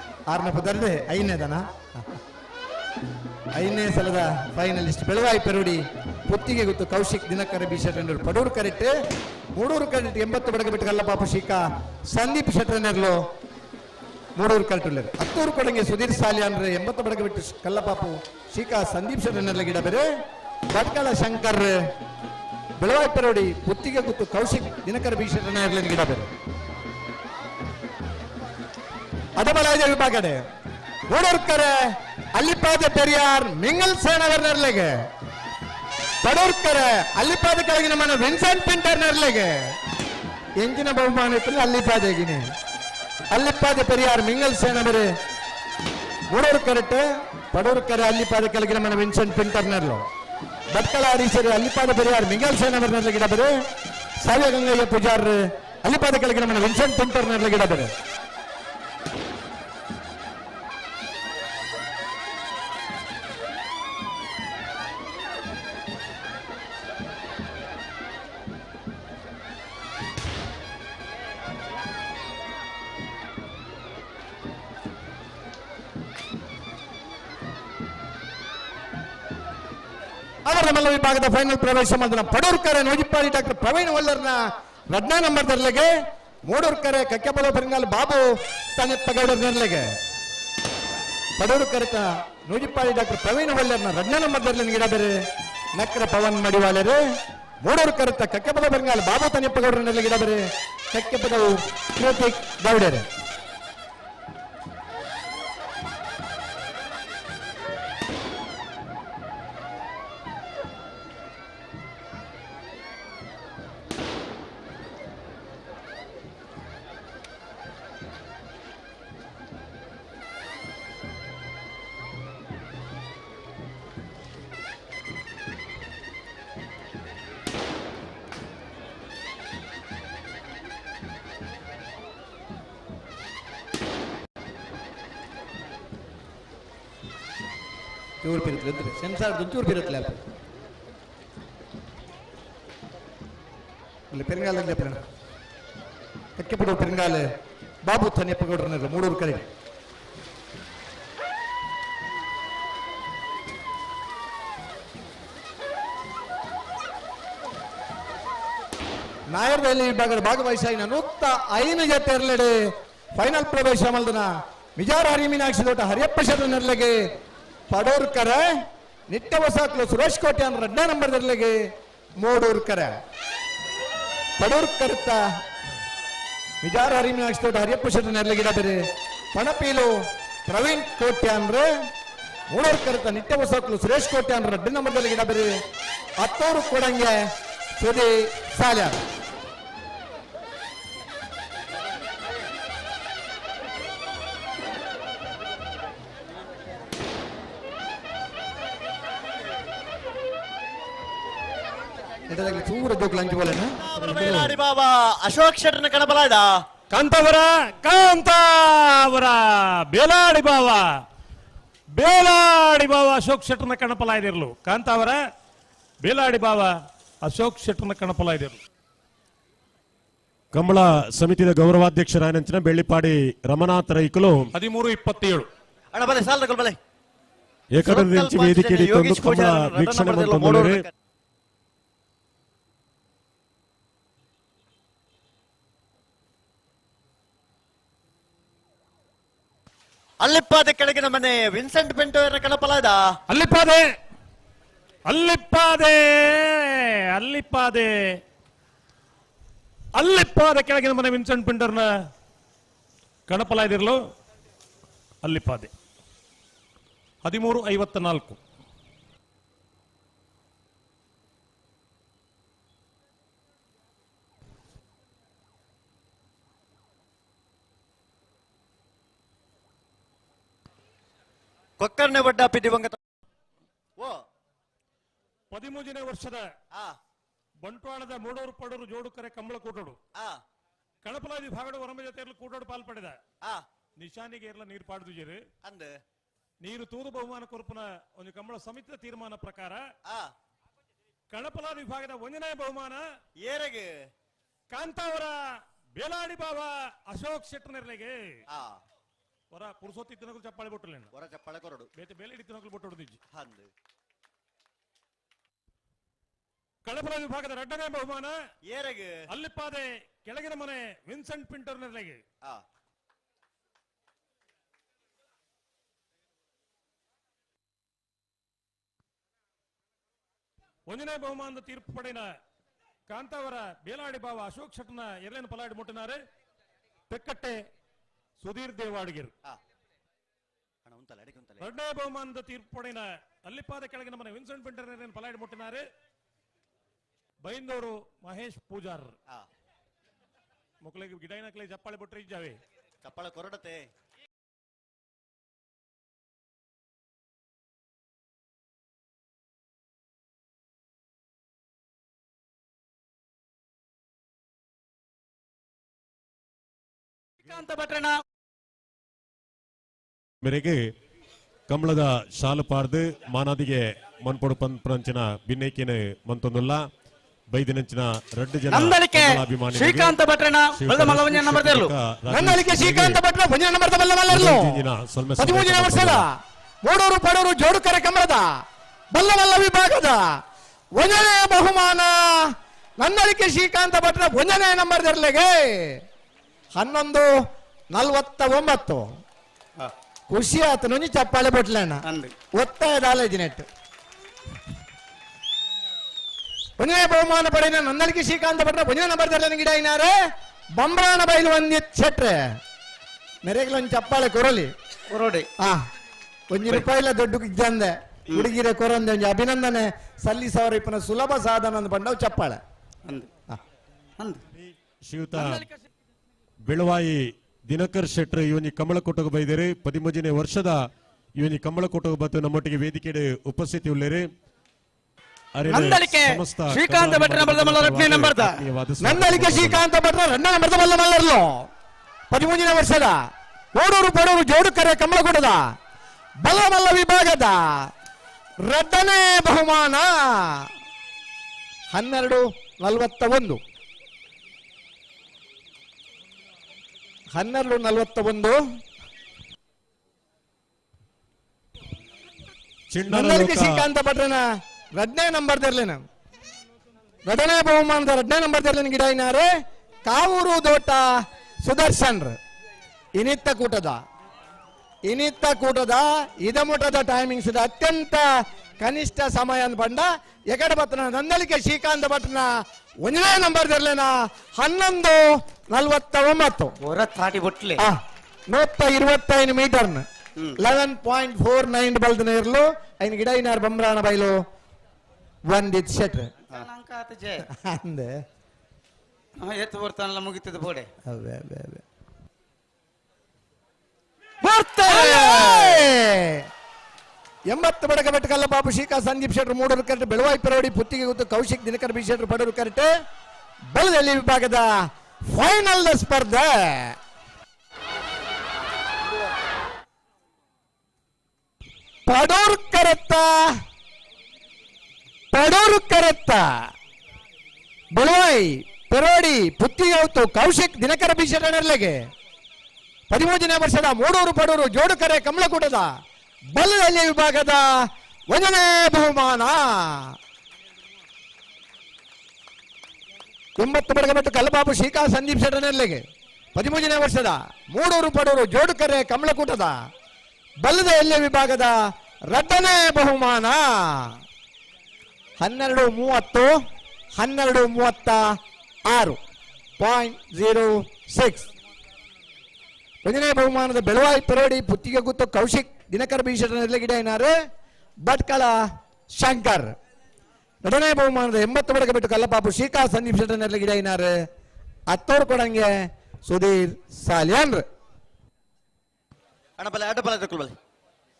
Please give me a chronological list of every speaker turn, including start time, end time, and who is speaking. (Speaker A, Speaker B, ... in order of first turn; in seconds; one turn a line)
Speaker A: 0.3-1.8
Speaker A: 3.5-8.9
Speaker A: 9.5-13.2
Speaker A: 14.4-20.1
Speaker A: 20.7-21.8
Speaker A: 22.8-26.3
Speaker A: 29.4-30.4
Speaker A: 31.1-34.9
Speaker A: 36.2-39.6
Speaker A: 40.6-42.4
Speaker A: 43.3-45.1
Speaker A: 46.3-50.0
Speaker A: 50.7-53.5
Speaker A: 54.2-57.9
Speaker A: 80.5-85.9
Speaker A: 86.5-89.9
Speaker A: 91.4-95.1
Speaker A: 95.7-97.0
Speaker A: 97.6-103.0
Speaker A: 138.2-140.2
Speaker A: 144.1-145.0
Speaker A: 146.4-147.2
Speaker A: 147.8-149.4
Speaker A: 159.3-162.6
Speaker A: 163.1-167.0
Speaker A: 167.7-168.5
Speaker A: 169.1-171.6
Speaker A: 172.2-172.9
Speaker A: 174.4-175.2
Speaker A: 176.6-178.8
Speaker A: 179.3-181.7
Speaker A: 182.5-185.5
Speaker A: 186.2-189.0
Speaker A: 202.3-204.6
Speaker B: 203.8-206.5
Speaker C: 206.9-210.8
Speaker C: 212.0-215.2
Speaker C: 216.0-216.7
Speaker C: 217.2-218.6
Speaker D: 220.5-224.5
Speaker C: 224.5-225.5
Speaker B: 225.9-226.8
Speaker D: 227.7-230.8
Speaker B: 227.8-230.9
Speaker B: 240.2-243.1
Speaker C: 243.3-243.9
Speaker C: 245.1-248.2
Speaker C: 249.9-251.9
Speaker C: 253.3-254.0
Speaker C: 255.2-255.7
Speaker C: 257.2-258.4
Speaker B: 271.8-273.0
Speaker C: 275.5-276.5
Speaker C: 277.6-280.0
Speaker C: 281.0-283.2
Speaker C: 284.0-285.4
Speaker B: 285.6-285.9
Speaker C: 286.6-289.8
Speaker C: 291.3-293.0
Speaker B: 293.4-293.9
Speaker C: 294.7-295.4
Speaker C: 296.0-298.2
Speaker B: 298.5-298.8
Speaker C: 299.5-301.1
Speaker B: 301.1-301.9
Speaker C: 301.9-303.2
Speaker B: 303.3-303.7
Speaker C: 306.8-308.4
Speaker B: 308.7-309.1
Speaker C: 309.3-312.2
Speaker C: 320.9-322.3
Speaker C: 323.1-326.2
Speaker C: 327.1-327.6
Speaker C: 328.4-329.3
Speaker B: 330.9-331.6
Speaker C: 331.6-335.8
Speaker C: 337.4-339.1
Speaker C: 340.8-342.6
Speaker B: 343.0-343.9
Speaker E: 357.4-358.2
Speaker D: 360.4-360.8
Speaker D: 361.7-366.8
Speaker D: 367.5-373.2
Speaker E: 368.7-371.9
Speaker A: 372.3-374.9
Speaker D: 374.3-376.2
Speaker A: 375.4-378.5
Speaker A: 379.1-380.2
Speaker A: 381.0-386.0
Speaker A: 386.8-387.3
Speaker A: 387.9-389.0
Speaker A: 390.3-392.0
Speaker A: 392.6-393.6
Speaker A: 396.8-400.1
Speaker A: 400.8-402.5
Speaker A: 403.4-404.7
Speaker E: 405.1-405.5
Speaker A: 406.5-412.6
Speaker D: 415.0-415.7
Speaker D: 416.7-420.8
Speaker D: 421.4-424.3
Speaker D: 425.5-429.8
Speaker E: 425.7-428.6
Speaker A: 429.0-431.7
Speaker A: 432.3-433.2
Speaker A: 433.7-435.7
Speaker A: 436.4-437.9
Speaker A: 438.6-440.7
Speaker A: 441.9-443.6
Speaker A: 447.3-448.6
Speaker D: 452.9-453.8
Speaker A: 453.1-454.4
Speaker A: 455.0-456.0
Speaker A: 457.2-459.5
Speaker A: 460.0-461.0
Speaker A: 461.6-462.4
Speaker A: 463.2-464.0
Speaker A: 465.1-468.3
Speaker A: 468.8-472.5
Speaker A: 473.0-476.8
Speaker E: 476.8-477.8
Speaker A: 478.5-480.0
Speaker A: 480.6-484.4
Speaker A: 485.5-486.3
Speaker E: 486.5-487.4
Speaker A: 487.5-488.1
Speaker E: 489.4-490.9
Speaker A: 491.1-491.8
Speaker E: 494.4-495.9
Speaker A: 494.9-496.4
Speaker A: 497.5-502.9
Speaker A: 503.7-504.7
Speaker A: 505.3-506.9
Speaker A: 512.1-513.5
Speaker A: 515.3-516.5
Speaker A: 517.9-522.0
Speaker A: 523.1-525.9
Speaker A: 526.5-527.6
Speaker A: 528.3-530.1
Speaker A: 533.6-536.0
Speaker A: 536.5-539.8
Speaker A: 540.6-541.7
Speaker A: 542.3-544.2
Speaker A: 545.4-546.6
Speaker A: 547.2-548.3
Speaker A: 548.9-549.2
Speaker A: 549.8-551.5
Speaker A: 553.0-557.3
Speaker A: 558.0-558.5
Speaker A: 559.2-559.7
Speaker A: 560.6-564.1
Speaker A: 564.9-565.7
Speaker A: 566.2-567.6
Speaker B: 569.6-570.5